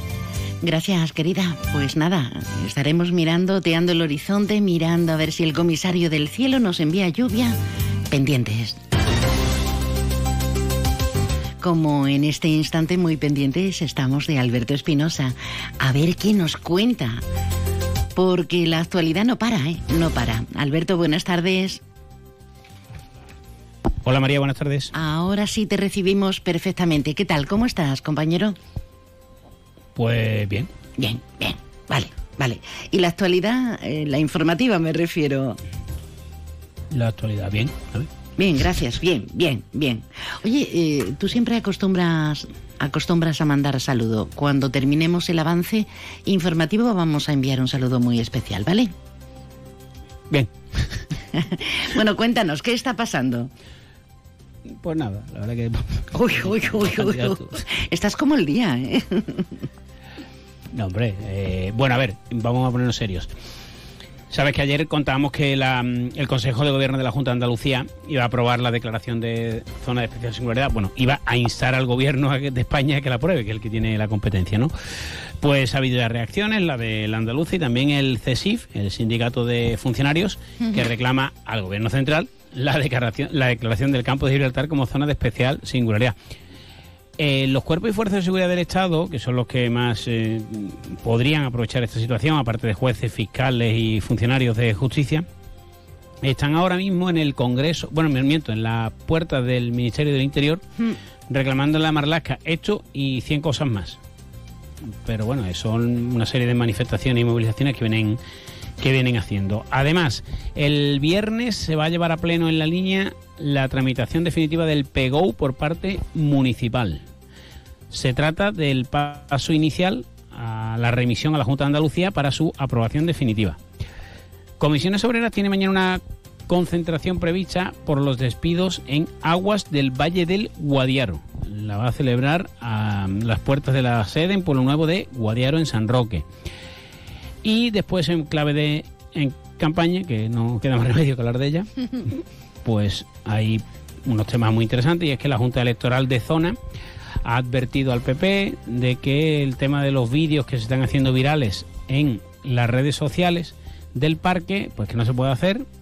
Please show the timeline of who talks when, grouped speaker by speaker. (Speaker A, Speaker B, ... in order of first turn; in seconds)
Speaker A: 0.6-7.6, 8.1-8.8, 11.6-17.2, 18.1-21.8, 24.9-28.6, 31.0-35.6, 38.4-48.9, 51.3-53.5, 56.1-59.5
Speaker B: 24.0-24.9, 29.9-30.7, 36.9-38.1, 50.3-51.0, 54.7-56.0, 56.6-57.5, 60.7-63.3, 64.3-74.7, 75.4-86.2, 87.2-95.3, 96.2-100.6, 101.3-104.0, 104.8-108.2, 108.8-117.0, 117.9-123.6, 124.6-136.3, 137.4-141.7, 142.6-146.6, 147.2-155.7